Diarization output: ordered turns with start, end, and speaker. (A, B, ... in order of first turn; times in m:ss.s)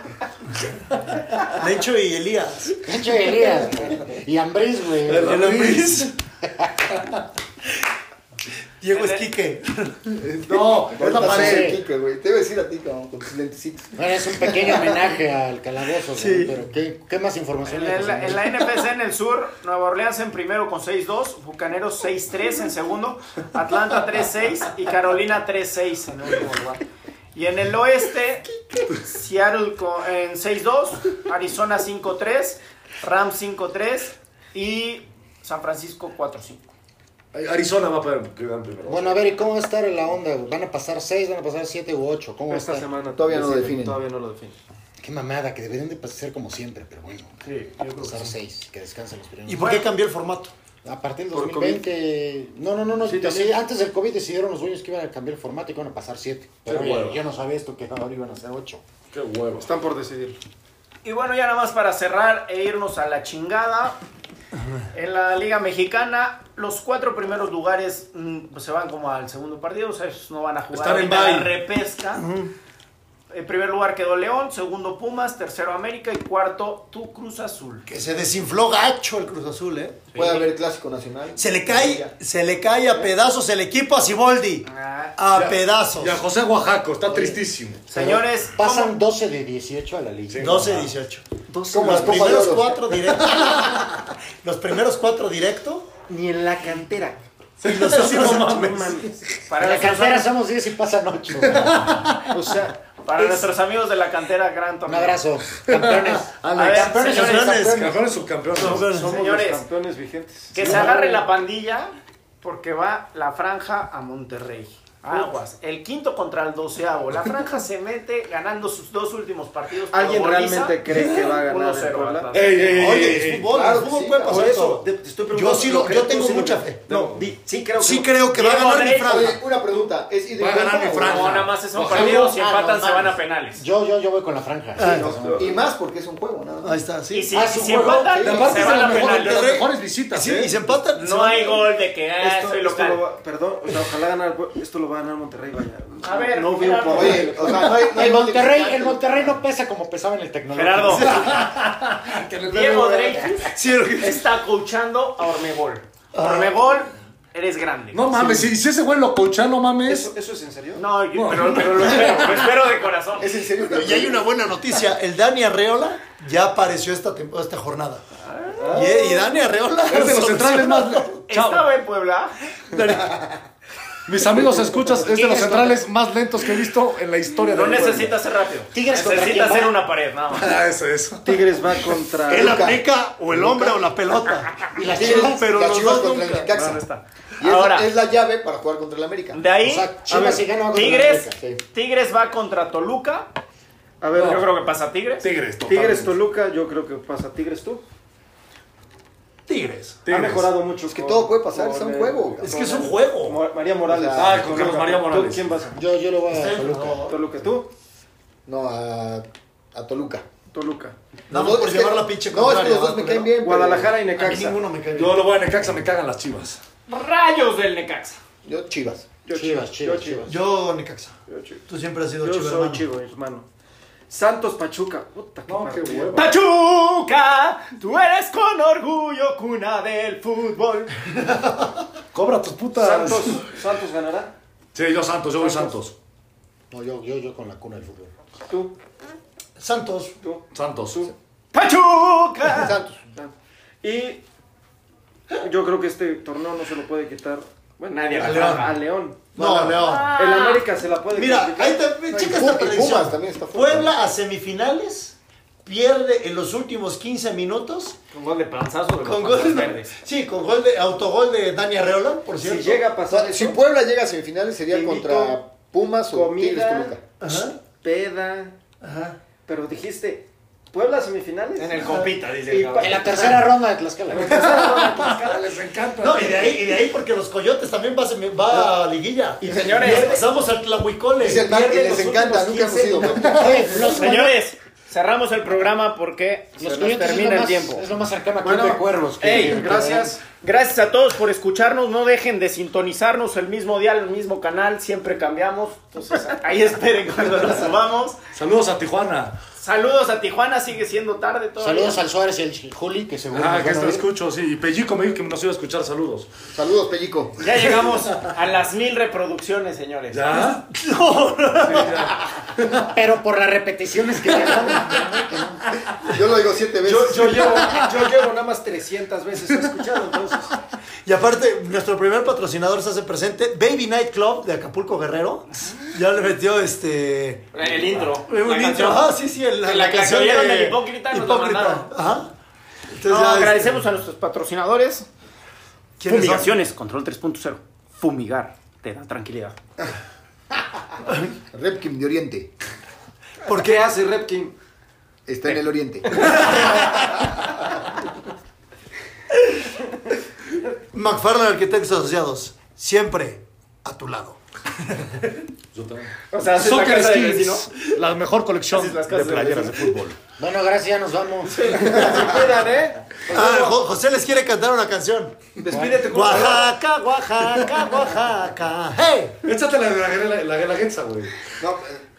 0:01.1-0:01.6 A
0:01.5-0:02.8 B
0:02.8-0:07.0 C
0:05.1-0:05.8 A
0:05.1-0:06.1 B
0:08.8-0:10.1 B
0:08.9-0:09.3 D
0:10.2-0:11.8 A
0:10.9-0:14.9 E
0:11.1-0:11.8 C
0:14.0-0:18.6 C
0:16.1-0:16.5 B
0:17.6-0:26.8 D
0:27.3-0:36.7 D
0:37.3-0:39.2 A
0:38.8-0:42.9 C
0:42.5-0:44.6 F
0:43.2-0:44.0 E
0:45.0-0:49.8 C
0:47.4-0:48.3 D
0:49.4-0:50.5 B
0:49.6-0:49.8 D
0:50.8-0:58.8 C
0:51.3-0:51.8 F
0:53.0-0:53.6 F
0:56.6-0:57.2 A
0:59.1-0:59.7 A
0:59.6-1:00.4 F
1:01.0-1:04.0 D
1:04.9-1:12.2 D
1:10.7-1:11.6 A
1:12.1-1:12.5 B
1:13.3-1:17.8 D
1:17.8-1:20.1 B
1:20.1-1:20.5 D
1:20.1-1:22.1 E
1:21.4-1:26.2 B
1:24.6-1:25.2 D
1:25.3-1:27.8 A
1:27.9-1:28.9 D
1:27.9-1:30.9 C
1:30.3-1:30.7 A
1:30.4-1:36.0 B
1:31.6-1:32.5 F
1:31.7-1:32.8 E
1:33.4-1:33.8 A
1:36.1-1:37.2 F
1:37.6-1:39.0 B
1:37.6-1:39.3 A
1:38.0-1:39.1 F
1:39.4-1:40.3 D
1:39.6-1:42.1 C
1:41.4-1:42.3 A
1:42.3-1:42.8 F
1:43.0-1:45.2 D
1:44.9-1:48.0 C
1:45.6-1:48.9 A
1:46.5-1:47.6 D
1:46.9-1:49.2 B
1:48.6-1:51.2 F
1:48.7-1:49.6 D
1:50.5-2:02.8 D
1:50.6-1:51.1 B
1:59.9-2:02.3 F
2:02.3-2:03.5 A
2:02.7-2:06.8 B
2:02.8-2:04.5 E
2:04.2-2:08.1 F
2:06.9-2:07.3 A
2:07.7-2:09.5 B
2:08.3-2:09.4 D
2:08.9-2:12.0 E
2:10.4-2:12.4 A
2:11.0-2:13.6 D
2:12.5-2:15.5 C
2:14.8-2:15.2 B
2:14.8-2:16.8 E
2:16.6-2:17.3 B
2:17.1-2:19.6 D
2:17.3-2:18.1 C
2:18.1-2:18.9 E
2:18.2-2:20.6 A
2:18.9-2:21.7 B
2:20.9-2:23.0 D
2:22.2-2:27.6 F
2:26.0-2:27.4 D
2:26.9-2:29.4 E
2:27.6-2:31.5 C
2:30.5-2:31.2 D
2:31.0-2:33.1 A
2:32.4-2:38.2 D
2:32.8-2:34.2 B
2:36.1-2:36.6 B
2:37.9-2:40.1 A
2:39.8-2:40.8 F
2:40.8-2:43.3 D
2:41.1-2:42.6 A
2:43.2-2:44.2 E
2:43.6-2:48.0 B
2:48.6-2:51.2 B
2:49.9-2:51.7 A
2:51.3-2:52.3 D
2:52.7-2:53.3 A
2:54.0-2:58.2 A
2:54.7-2:55.8 C
2:57.5-3:00.6 D
2:58.7-2:59.7 C
3:00.3-3:01.5 A
3:01.2-3:02.7 F
3:02.3-3:06.4 B
3:02.3-3:02.8 E
3:04.8-3:05.4 C
3:04.8-3:06.8 E
3:04.8-3:05.2 D
3:05.8-3:07.9 D
3:07.4-3:09.4 E
3:09.3-3:13.3 D
3:09.6-3:11.4 C
3:11.4-3:11.6 E
3:14.0-3:14.4 F
3:14.2-3:14.5 A
3:14.2-3:15.3 D
3:15.2-3:16.2 A
3:15.6-3:17.8 F
3:19.5-3:20.1 B
3:20.0-3:20.5 A
3:20.1-3:25.8 F
3:20.9-3:22.5 E
3:22.4-3:23.4 B
3:23.8-3:24.8 E
3:24.1-3:25.5 A
3:25.7-3:27.1 C
3:26.3-3:27.0 E
3:26.5-3:27.2 B
3:27.1-3:27.7 F
3:28.4-3:30.2 E
3:30.5-3:30.9 F
3:31.3-3:33.4 B
3:31.3-3:33.9 E
3:33.4-3:34.6 F
3:34.1-3:35.4 B
3:34.9-3:36.6 A
3:36.9-3:38.2 D
3:38.4-3:39.0 E
3:39.2-3:40.4 F
3:39.3-3:40.3 C
3:40.2-3:41.1 B
3:41.3-3:41.6 F
3:41.6-3:42.8 B
3:42.2-3:43.4 F
3:44.1-3:46.3 F
3:45.5-3:46.3 A
3:46.1-3:50.9 D
3:52.1-3:53.5 A
3:52.8-3:54.3 F
3:54.7-3:55.9 A
3:55.4-3:55.7 F
3:56.7-3:58.1 C
3:58.5-3:58.7 F
3:59.6-4:00.2 B
4:00.2-4:01.1 F
4:00.5-4:01.1 A
4:01.5-4:02.7 D
4:02.5-4:03.0 E
4:03.2-4:04.2 F
4:05.3-4:11.9 F
4:07.9-4:08.8 D
4:08.2-4:08.8 B
4:09.3-4:10.1 B
4:09.4-4:09.6 E
4:09.8-4:10.6 D
4:11.1-4:18.0 B
4:12.1-4:14.0 E
4:18.1-4:20.0 D
4:19.0-4:22.8 B
4:22.4-4:23.6 F
4:23.1-4:27.1 E
4:24.7-4:25.4 F
4:26.1-4:27.0 F
4:27.2-4:27.6 B
4:27.6-4:28.6 F
4:28.8-4:29.2 B
4:29.4-4:33.4 F
4:31.6-4:33.0 D
4:32.8-4:34.7 C
4:34.1-4:35.3 F
4:34.1-4:36.7 A
4:34.9-4:35.4 D
4:36.0-4:43.2 B
4:39.4-4:40.3 D
4:39.5-4:40.1 E
4:41.2-4:44.0 E
4:41.5-4:43.1 F
4:43.3-4:44.4 C
4:43.9-4:47.8 D
4:46.6-4:50.2 C
4:48.4-4:50.2 F
4:49.2-4:49.6 D
4:50.4-4:58.2 D
4:58.3-4:59.3 A
4:59.6-5:02.0 D
5:01.6-5:04.1 C
5:03.3-5:06.3 A
5:06.5-5:07.4 E
5:07.4-5:10.2 D
5:10.1-5:10.6 A
5:10.3-5:12.1 B
5:11.6-5:12.9 A
5:12.8-5:15.6 C
5:16.0-5:17.8 E
5:16.8-5:20.5 F
5:21.0-5:32.3 B
5:27.5-5:31.9 D
5:32.9-5:33.8 B
5:33.0-5:35.1 D
5:36.0-5:36.6 B
5:36.0-5:39.6 D
5:41.4-5:42.5 E
5:43.4-5:44.5 F
5:45.3-5:46.5 E
5:46.2-5:46.5 F
5:50.9-5:54.4 B
5:55.7-6:00.2 A
5:56.3-5:57.7 D
5:58.7-6:00.0 D
6:00.4-6:02.2 C
6:01.5-6:03.8 F
6:03.3-6:05.4 B
6:05.6-6:06.8 F
6:05.7-6:06.0 C
6:06.0-6:09.3 B
6:07.6-6:07.8 F
6:09.4-6:11.3 A
6:11.6-6:12.0 E